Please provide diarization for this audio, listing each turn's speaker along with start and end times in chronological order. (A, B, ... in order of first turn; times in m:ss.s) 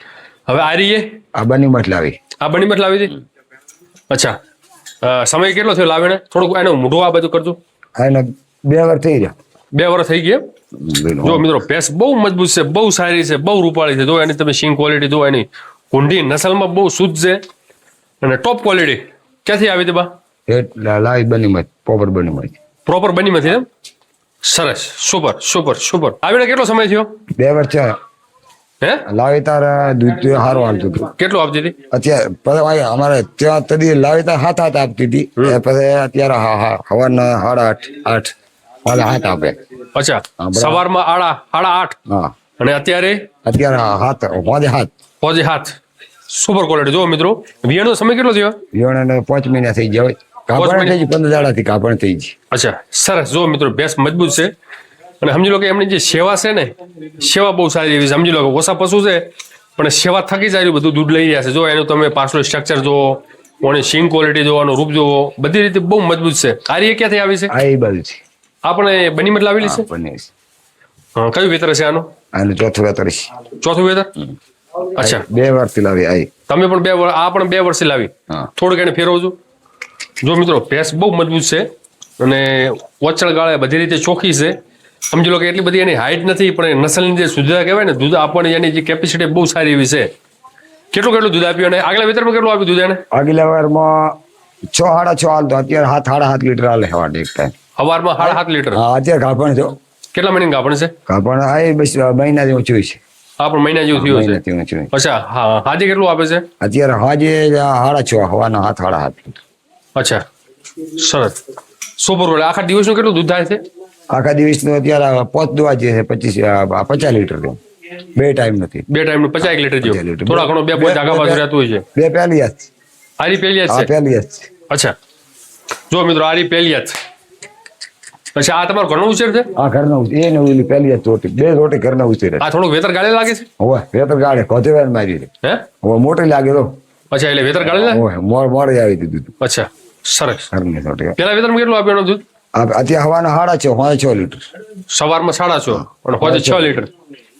0:00.5-0:01.2 A
0:01.3-0:02.2 B
0:02.4-0:03.2 A
0:04.1-0:04.4 A
0:05.0-0:07.6 A
0:08.0-0:09.3 B
0:09.8-0:10.4 A
0:10.8-0:11.5 B
0:11.2-0:17.4 A
0:18.2-0:20.1 A
0:20.5-0:22.5 B
0:22.8-0:23.7 A
0:24.4-0:27.1 A
0:27.4-0:28.0 B
0:29.0-0:31.1 B
0:31.1-0:31.7 A
0:31.9-0:38.3 B
0:38.8-0:39.6 B
0:39.9-0:42.0 A
0:40.4-0:40.8 B
0:42.1-0:42.3 B
0:42.6-0:43.2 A
0:43.4-0:44.9 B
0:45.2-0:45.8 A
0:46.3-0:48.6 A
0:48.7-0:52.3 B
0:50.5-0:51.0 A
0:52.5-0:54.5 A
0:55.2-1:07.5 A
1:07.5-1:08.2 B
1:08.6-1:09.8 A
1:09.6-1:10.3 B
1:11.2-1:12.1 A
1:12.3-1:13.3 B
1:13.6-1:14.1 A
1:15.0-1:16.3 B
1:15.0-1:15.2 A
1:16.5-1:19.4 A
1:20.2-1:21.7 A
1:22.2-1:24.5 A
1:25.1-1:30.1 A
1:30.9-1:33.0 A
1:33.1-1:34.2 B
1:34.7-1:37.5 B
1:37.8-1:38.8 A
1:38.2-1:39.8 B
1:40.1-1:40.9 A
1:41.1-1:43.0 B
1:43.4-1:44.4 A
1:43.9-1:44.9 B
1:44.9-1:46.4 A
1:46.6-1:49.4 B
1:50.0-1:50.2 A
1:51.0-1:51.4 A
1:52.0-1:53.6 A
1:54.1-1:57.6 B
1:58.1-1:58.8 B
1:58.9-2:01.8 A
1:59.4-2:01.4 B
2:01.9-2:02.7 B
2:03.2-2:03.9 A
2:03.7-2:04.5 B
2:04.7-2:04.9 A
2:05.9-2:07.0 A
2:08.4-2:09.5 A
2:09.5-2:12.4 B
2:12.4-2:13.4 A
2:13.6-2:15.3 B
2:15.8-2:16.8 B
2:17.1-2:18.0 A
2:17.6-2:19.3 B
2:19.4-2:20.5 A
2:20.5-2:21.2 B
2:21.2-2:22.2 A
2:22.5-2:24.4 B
2:24.9-2:26.9 A
2:25.7-2:26.8 B